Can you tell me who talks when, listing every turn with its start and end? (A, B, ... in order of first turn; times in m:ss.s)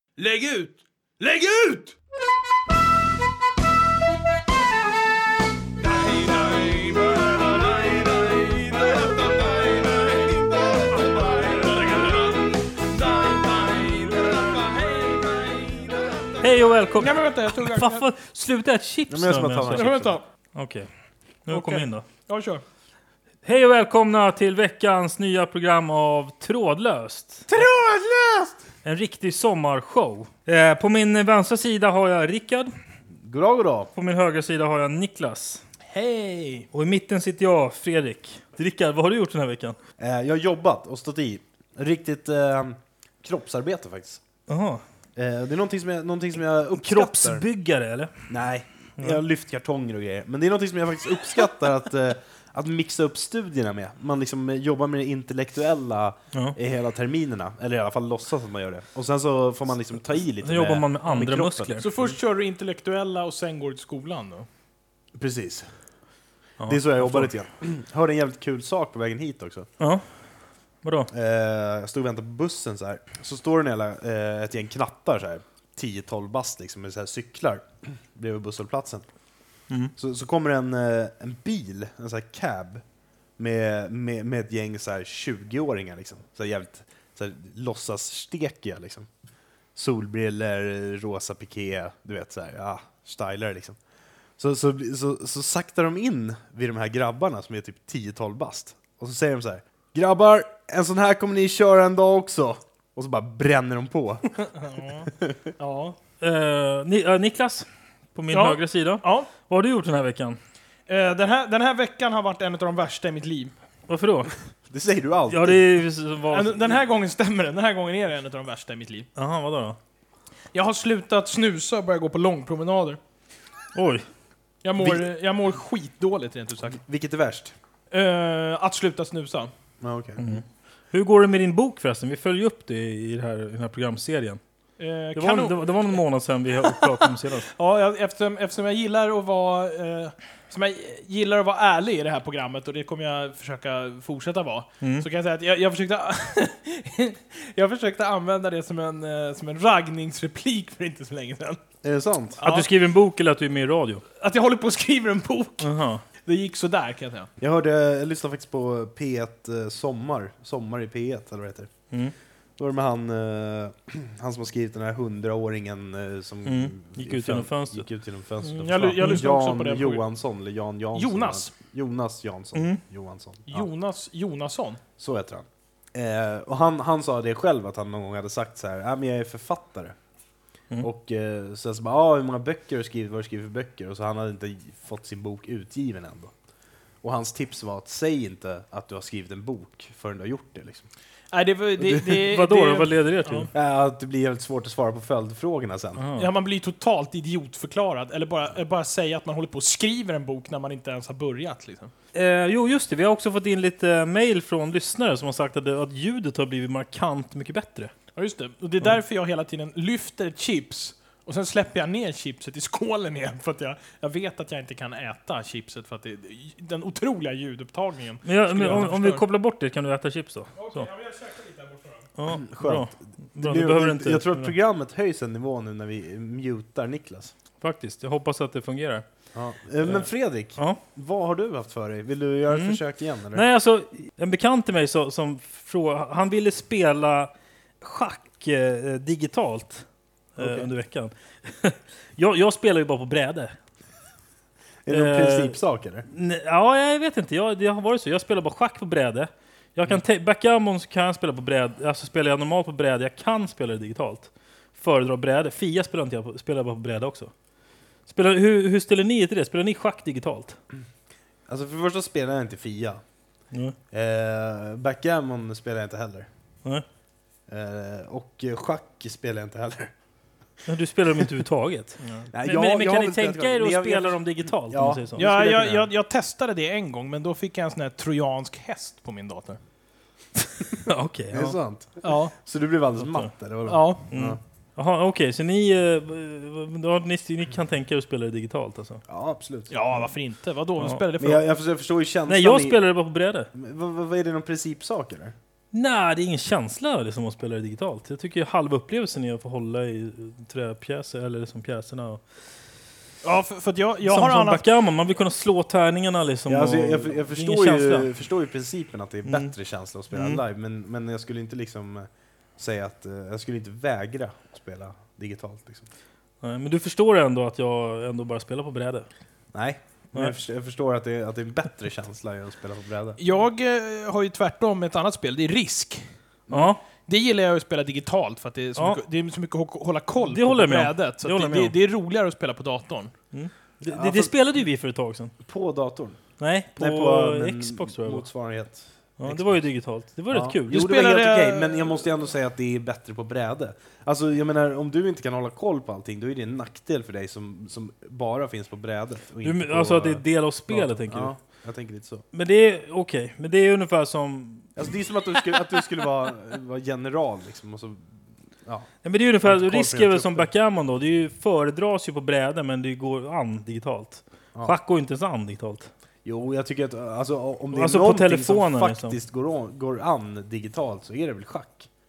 0:00.2-0:01.9 A
0:05.8-0:16.4 A
0:16.4-0:22.0 B
0:16.9-0:18.1 A
0:19.1-0:20.2 C
0:19.8-0:20.2 A
0:21.5-0:22.6 A
0:23.4-0:27.5 B
0:27.5-0:28.5 C
0:27.6-0:28.2 A
0:28.8-0:32.7 B
0:33.2-0:33.9 C
0:34.0-0:35.6 B
0:35.9-0:36.7 A
0:36.7-0:39.8 B
0:40.0-0:44.2 C
0:44.5-0:44.8 B
0:45.2-0:47.5 C
0:46.7-0:48.3 B
0:48.3-1:02.2 C
1:00.4-1:01.8 B
1:01.8-1:04.5 A
1:05.1-1:09.7 C
1:06.6-1:07.3 B
1:09.8-1:11.1 B
1:11.1-1:19.2 C
1:19.9-1:22.8 C
1:23.4-1:29.1 C
1:29.7-1:33.8 C
1:34.4-1:44.5 C
1:44.5-1:46.0 A
1:46.2-1:50.4 B
1:48.3-1:49.3 A
1:50.9-1:53.6 A
1:53.9-1:54.5 B
1:54.7-1:55.7 C
1:55.3-1:56.8 B
1:56.3-1:59.1 A
1:59.2-1:59.8 B
2:00.5-2:03.0 A
2:03.7-2:04.1 B
2:04.6-2:06.8 A
2:04.8-2:05.1 C
2:06.6-2:07.6 C
2:07.9-2:09.5 A
2:09.8-2:10.2 C
2:10.2-2:14.4 B
2:14.8-2:16.1 A
2:15.2-2:17.5 B
2:16.7-2:31.6 A
2:31.8-2:32.4 C
2:32.4-2:32.7 A
2:32.4-2:34.0 B
2:34.2-2:37.3 A
2:35.6-2:36.0 B
2:37.4-2:53.7 C
2:46.4-2:47.9 B
2:48.4-2:49.2 B
2:48.6-2:50.1 A
2:50.9-2:51.5 A
2:52.6-2:52.8 B
2:53.5-2:54.8 A
2:55.0-3:00.0 C
3:00.8-3:06.3 C
3:07.0-3:10.9 C
3:11.3-3:13.5 A
3:12.3-3:13.5 B
3:13.5-3:16.0 C
3:16.0-3:16.3 B
3:16.2-3:21.9 A
3:22.1-3:27.9 B
3:28.2-3:39.2 A
3:38.2-3:40.9 B
3:40.6-3:42.1 A
3:42.2-3:44.5 B
3:42.3-3:47.3 C
3:47.6-3:50.8 B
3:49.3-3:53.4 C
3:52.5-4:03.6 B
4:00.4-4:00.7 C
4:04.9-4:06.1 C
4:04.9-4:05.6 B
4:06.1-4:17.3 B
4:18.0-4:20.6 B
4:21.5-4:26.3 C
4:23.5-4:23.8 B
4:27.5-4:29.9 C
4:30.7-4:35.3 B
4:32.3-4:35.9 C
4:35.2-4:39.6 A
4:40.8-4:41.6 B
4:41.3-4:44.4 C
4:42.0-4:42.3 A
4:43.0-4:43.3 B
4:43.7-4:44.1 A
4:44.1-4:49.0 B
4:49.1-4:49.7 C
4:49.7-4:51.4 A
4:51.2-4:53.0 C
4:52.3-4:53.5 B
4:53.5-4:55.4 C
4:55.7-5:02.2 B
5:03.2-5:04.6 A
5:04.1-5:08.1 B
5:06.5-5:15.9 C
5:09.3-5:10.4 B
5:16.4-5:19.1 B
5:19.5-5:23.2 C
5:23.2-5:26.2 A
5:26.5-5:26.8 C
5:26.5-5:26.8 B
5:27.1-5:33.2 A
5:30.2-5:31.7 B
5:33.3-5:35.4 B
5:33.8-5:34.3 C
5:35.4-5:52.3 C
5:36.4-5:38.3 B
5:39.2-5:40.8 B
5:40.7-5:42.1 A
5:49.4-5:51.4 B
5:52.3-5:54.9 B
5:54.8-6:00.5 C
5:59.0-6:05.9 B
6:06.2-6:11.9 C
6:07.8-6:09.2 B